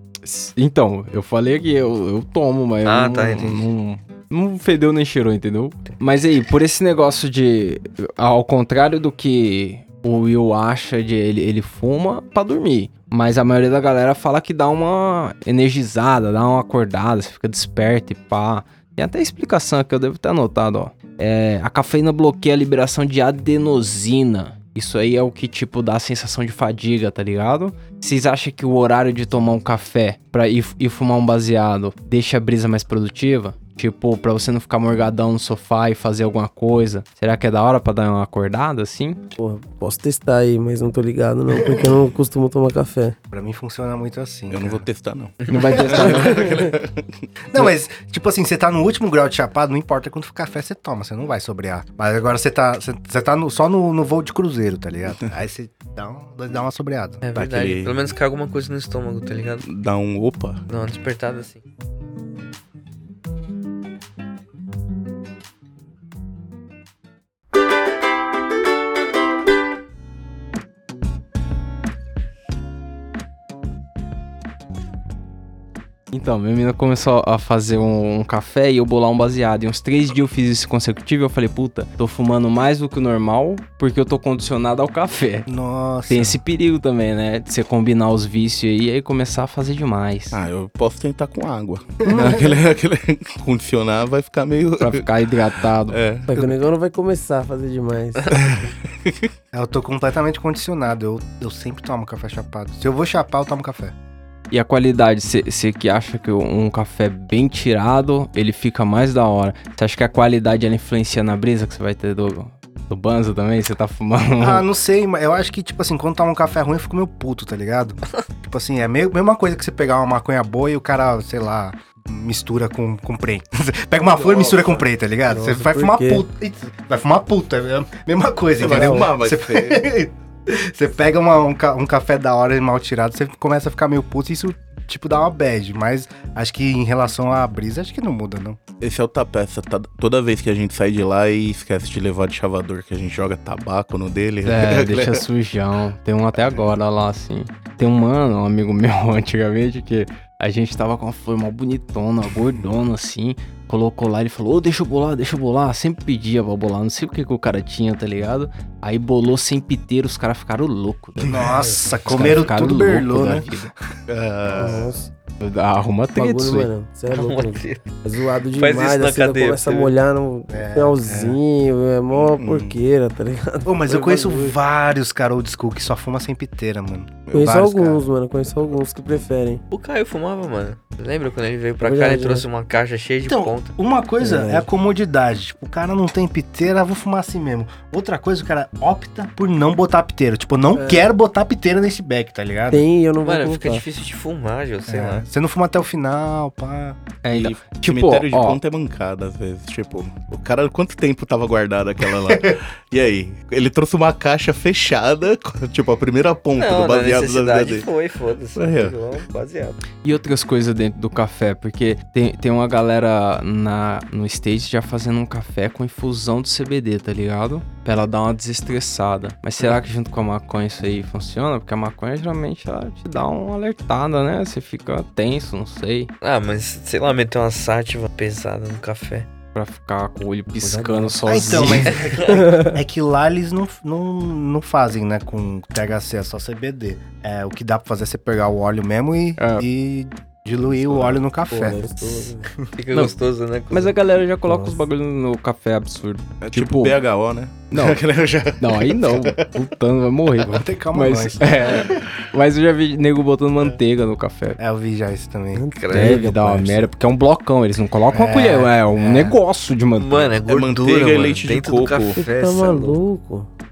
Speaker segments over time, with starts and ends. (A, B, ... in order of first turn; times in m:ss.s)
0:00.2-0:39.2 A
0:02.8-0:03.7 B
0:39.4-0:43.2 C
0:43.3-0:44.8 D
0:44.5-0:47.1 E
0:45.5-0:46.4 A
0:46.0-0:46.5 C
0:47.5-0:57.2 D
0:57.2-0:59.6 B
0:57.3-0:57.9 E
0:59.6-1:00.6 E
1:00.7-1:01.6 B
1:16.1-1:25.5 A
1:25.5-1:26.4 D
1:26.1-1:30.4 A
1:30.3-1:35.1 E
1:32.0-1:32.4 D
1:34.8-1:36.0 A
1:35.9-1:36.3 E
1:36.3-1:38.3 C
1:38.3-1:39.3 E
1:39.5-1:43.9 D
1:44.5-1:54.6 A
1:54.4-2:18.6 D
2:04.1-2:04.8 E
2:05.3-2:06.2 C
2:08.6-2:09.8 E
2:08.6-2:09.1 C
2:18.8-2:25.2 E
2:24.4-2:41.4 A
2:41.2-2:43.5 D
2:42.1-2:43.7 A
2:44.1-2:44.9 E
2:44.5-2:45.1 C
2:45.4-2:46.7 A
2:46.2-2:54.5 C
2:47.1-2:48.0 B
2:48.5-2:50.0 B
2:50.5-2:51.4 D
2:52.2-2:52.8 E
2:53.6-2:58.1 D
2:57.3-2:57.5 E
2:57.3-2:59.6 C
2:59.7-3:03.7 B
3:01.8-3:02.4 C
3:03.2-3:12.8 D
3:04.2-3:04.6 C
3:10.8-3:11.0 C
3:12.7-3:13.8 C
3:13.2-3:15.2 B
3:14.9-3:17.0 D
3:17.2-3:18.6 A
3:17.3-3:27.8 E
3:22.3-3:22.6 D
3:26.6-3:29.8 B
3:28.6-3:29.0 E
3:30.0-3:46.1 A
3:46.2-3:49.3 B
3:49.5-3:52.0 A
3:50.6-3:52.8 C
3:51.2-4:01.8 D
3:59.4-3:59.6 A
4:00.9-4:01.1 E
4:01.5-4:02.5 C
4:02.8-4:03.9 B
4:03.7-4:07.0 A
4:04.4-4:04.8 C
4:06.4-4:09.5 E
4:07.7-4:08.0 A
4:08.6-4:14.6 A
4:10.4-4:12.0 D
4:14.6-4:15.7 D
4:15.5-4:16.8 C
4:15.8-4:16.2 B
4:15.9-4:20.3 A
4:18.1-4:19.4 D
4:20.0-4:23.0 B
4:20.4-4:22.2 E
4:22.2-4:23.5 C